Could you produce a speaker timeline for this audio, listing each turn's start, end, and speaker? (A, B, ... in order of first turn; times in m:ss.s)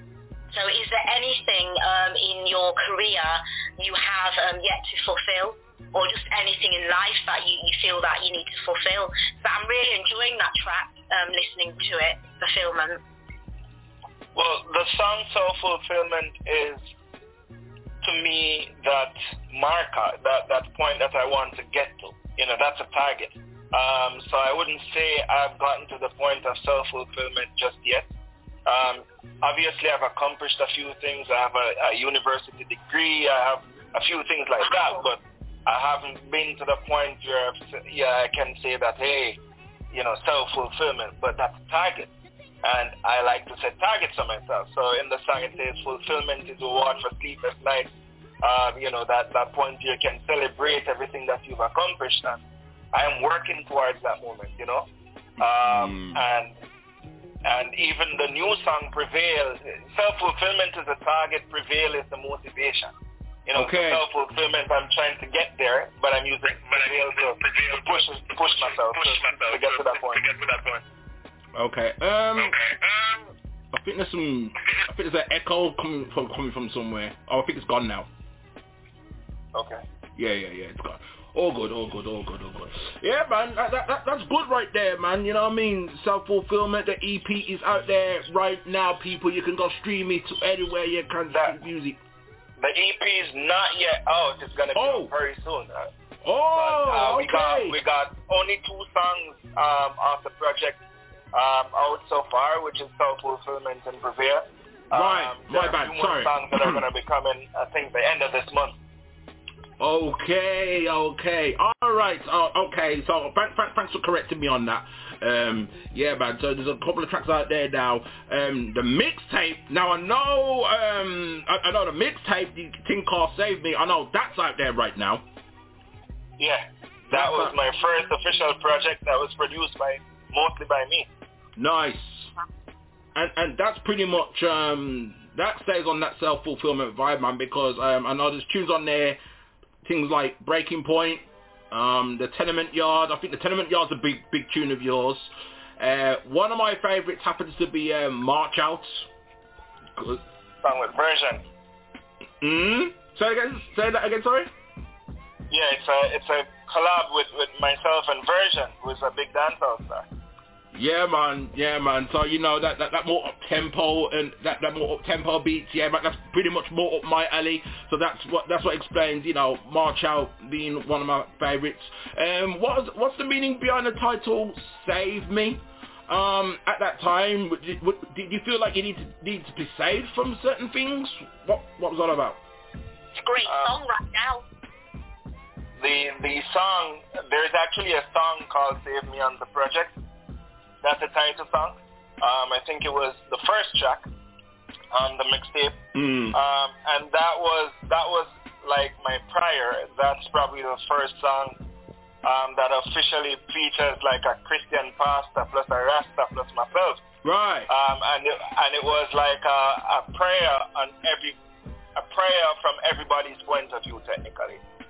0:00.5-0:13.0 A
0:14.3-0:16.9 B
0:18.0-0:28.1 B
0:28.6-0:39.4 B
0:39.9-0:42.1 B
0:42.6-0:47.9 B
0:48.4-0:52.4 B
0:52.9-0:54.8 B
0:55.4-0:56.6 B
0:55.7-0:56.1 C
0:57.4-1:02.9 B
1:03.5-1:10.8 B
1:03.6-1:04.0 C
1:11.6-1:12.5 C
1:13.8-1:18.0 C
1:19.5-1:19.8 B
1:20.2-1:32.0 C
1:32.6-1:35.9 B
1:34.8-1:35.1 C
1:36.2-1:37.7 C
1:36.5-1:40.8 B
1:41.3-1:48.8 B
1:45.0-1:46.2 C
1:49.8-2:05.2 C
2:06.4-2:11.1 B
2:07.2-2:07.5 C
2:11.6-2:12.3 C
2:13.2-2:19.2 C
2:19.8-2:21.2 C
2:21.7-2:25.2 C
2:25.8-2:29.0 C
2:30.6-2:31.4 B
2:32.4-2:34.5 C
2:35.5-2:40.0 B
2:40.7-3:02.4 C
3:03.1-3:04.4 A
3:03.4-3:03.7 B
3:05.8-3:09.9 B
3:10.8-3:14.0 B
3:14.9-3:15.8 B
3:16.0-3:16.3 C
3:16.3-3:21.6 B
3:22.2-3:27.0 B
3:27.3-3:27.6 C
3:27.7-3:31.4 B
3:32.0-3:34.6 B